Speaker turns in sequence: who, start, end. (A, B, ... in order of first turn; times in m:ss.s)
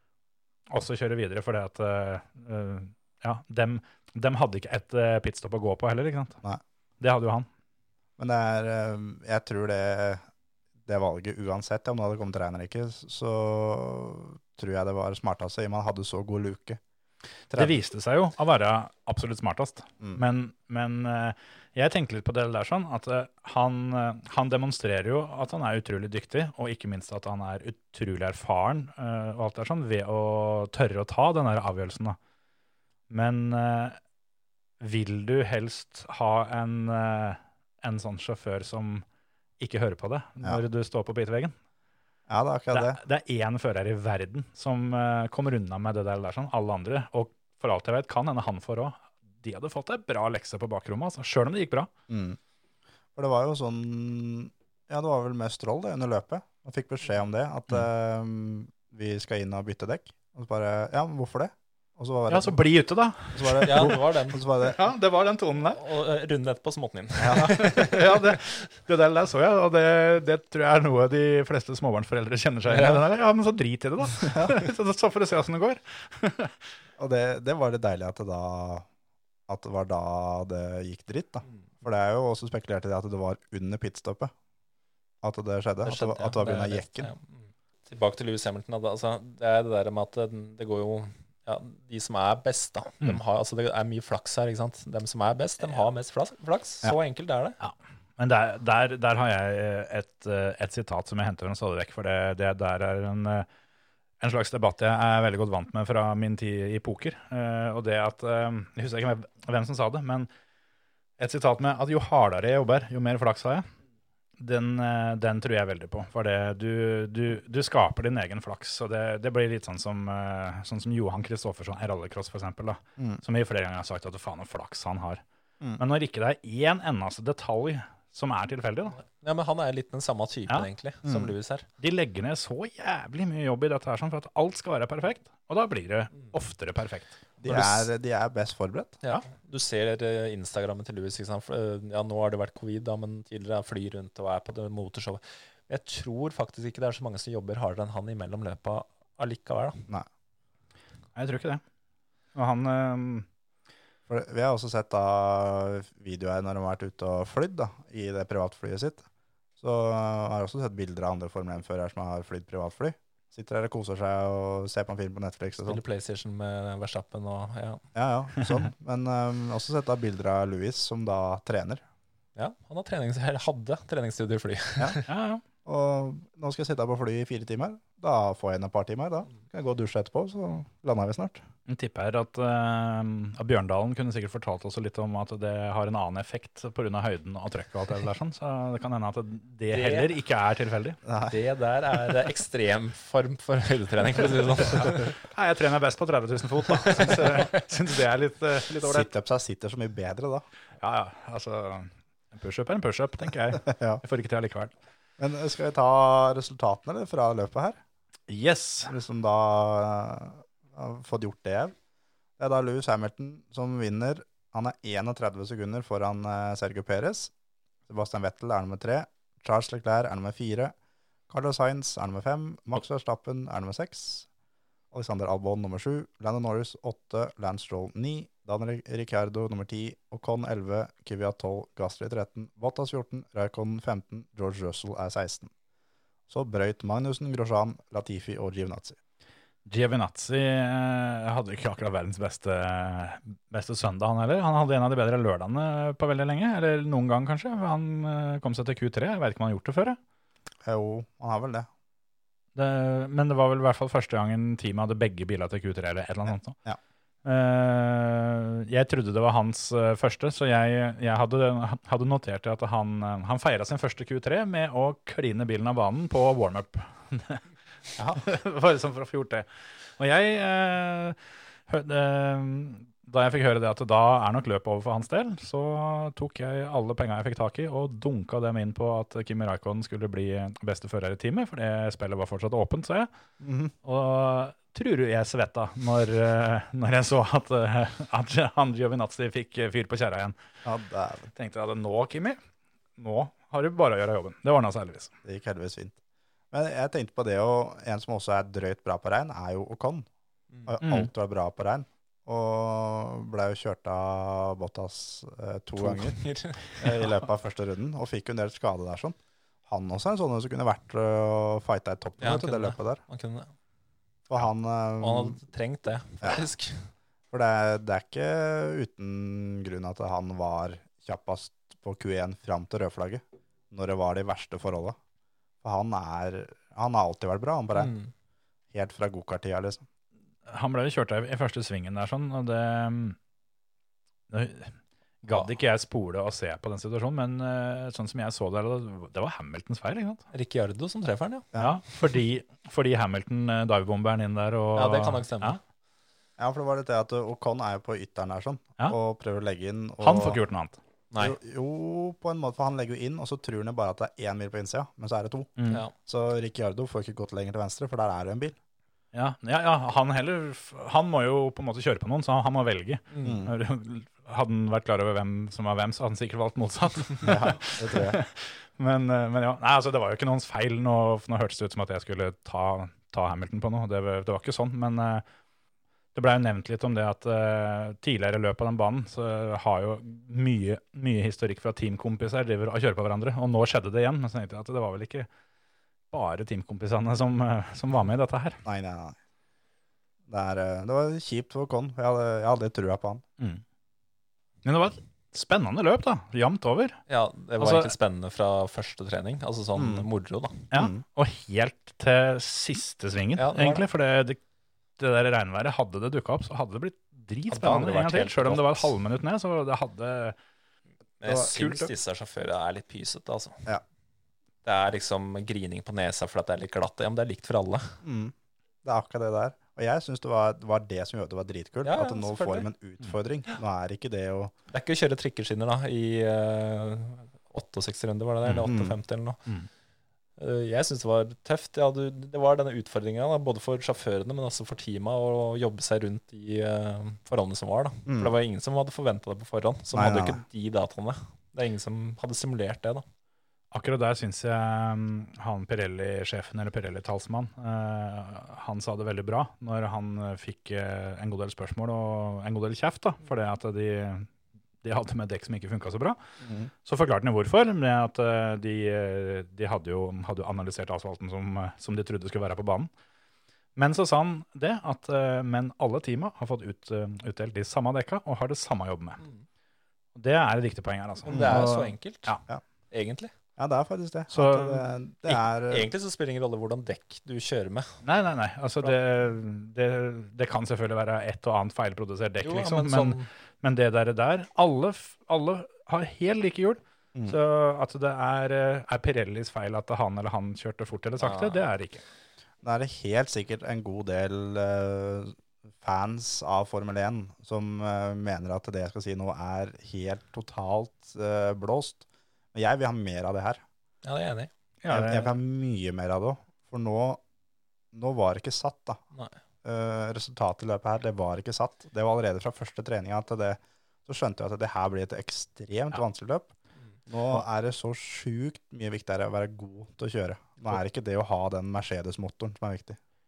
0:00.7-0:06.4 A
0:07.0-0:07.5 A
0:08.2-0:10.2 B
0:10.8-0:16.8 B
0:17.5-0:32.2 A
0:33.1-0:34.0 A
0:34.8-0:39.0 A
0:39.6-0:41.5 A
0:42.3-0:43.0 B
0:42.7-0:51.9 A
0:52.1-0:52.4 B
0:53.1-1:02.6 B
1:02.3-1:05.8 A
1:03.3-1:04.8 B
1:03.6-1:04.4 C
1:05.7-1:08.3 C
1:07.2-1:07.6 B
1:07.3-1:16.6 A
1:12.7-1:13.0 C
1:14.3-1:14.6 B
1:17.0-1:18.8 B
1:19.5-1:24.3 B
1:25.2-1:27.1 B
1:25.8-1:37.6 C
1:37.6-1:43.5 A
1:44.2-1:50.3 A
1:51.2-1:53.7 A
1:54.4-2:05.2 A
2:05.8-2:09.0 A
2:09.0-2:11.7 C
2:11.0-2:11.3 B
2:11.8-2:17.1 A
2:17.4-2:19.0 B
2:17.5-2:17.8 C
2:19.0-2:29.8 C
2:31.1-2:31.6 A
2:32.3-2:33.2 A
2:34.1-2:39.0 B
2:39.6-2:45.8 B
2:45.6-2:47.8 C
2:47.9-2:51.8 B
2:52.4-2:55.1 C
2:55.1-2:55.4 A
2:55.6-3:01.4 B
3:01.7-3:11.0 A
3:09.7-3:10.1 C
3:11.0-3:11.3 B
3:11.3-3:15.1 C
3:14.6-3:19.1 A
3:16.8-3:17.6 C
3:18.8-3:20.4 B
3:20.8-3:24.7 A
3:23.6-3:24.0 B
3:25.2-3:27.8 B
3:28.3-3:28.9 A
3:28.9-3:31.7 B
3:32.4-3:37.3 B
3:37.9-3:40.7 B
3:41.3-3:44.3 B
3:44.9-3:55.5 B
3:56.3-3:59.0 B
3:59.6-4:10.0 A
4:10.6-4:11.7 B
4:12.6-4:16.6 A
4:17.2-4:27.4 A
4:28.1-4:29.4 A
4:30.0-4:31.2 A
4:31.7-4:43.1 A
4:43.4-4:43.7 B
4:43.8-4:50.4 A
4:50.6-4:51.3 B
4:51.3-4:52.4 A
4:53.0-4:55.1 A
4:55.2-4:56.0 B
4:56.5-5:00.1 B
5:00.7-5:06.2 B
5:00.8-5:01.1 A
5:05.8-5:07.2 C
5:06.8-5:13.0 B
5:12.2-5:13.5 C
5:14.3-5:15.4 B
5:15.0-5:16.9 C
5:17.3-5:25.0 B
5:25.6-5:27.9 B
5:27.7-5:28.1 C
5:28.7-5:29.8 B
5:30.5-5:33.2 A
5:34.3-5:40.2 A
5:40.3-5:41.5 C
5:41.5-5:45.6 A
5:44.7-5:45.6 C
5:46.4-5:50.4 B
5:50.0-5:50.8 A
5:51.1-5:51.4 C
5:51.2-5:58.6 B
5:55.6-5:55.8 A
5:59.1-6:15.2 A
6:03.1-6:03.4 C
6:03.2-6:03.5 B
6:07.2-6:08.2 B
6:16.1-6:25.3 A
6:26.1-6:28.6 A
6:28.6-6:29.2 B
6:30.3-6:33.2 B
6:34.6-6:37.0 A
6:37.1-6:40.7 C
6:37.6-6:37.9 A
6:39.7-6:40.0 B
6:40.7-6:44.4 A
6:40.7-6:41.0 B
6:43.4-6:43.8 C
6:45.0-6:50.4 A
6:47.5-6:48.9 C
6:51.2-6:53.7 C
6:51.4-6:51.9 A
6:54.6-6:58.0 C
6:58.0-6:58.3 B
6:58.8-7:04.5 B
7:01.8-7:02.7 C
7:04.7-7:09.4 C
7:08.5-7:09.0 B
7:10.4-7:23.0 C
7:18.1-7:18.3 B
7:19.9-7:20.4 B
7:23.7-7:34.3 A
7:34.8-7:36.2 A
7:36.4-7:36.7 B
7:36.8-7:42.9 A
7:43.8-7:49.2 A
7:50.1-7:52.4 A
7:51.2-7:52.3 C
7:51.3-7:51.7 B
7:52.9-7:53.3 C
7:53.6-7:55.9 B
7:54.3-7:54.8 A
7:55.2-7:58.0 C
7:58.0-8:12.0 A
8:02.4-8:03.3 C
8:11.2-8:11.6 C
8:12.6-8:23.6 B
8:24.0-8:24.5 C
8:24.8-8:25.3 A
8:24.9-8:27.2 B
8:27.9-8:29.0 B
8:29.6-8:36.5 B
8:37.1-8:43.0 B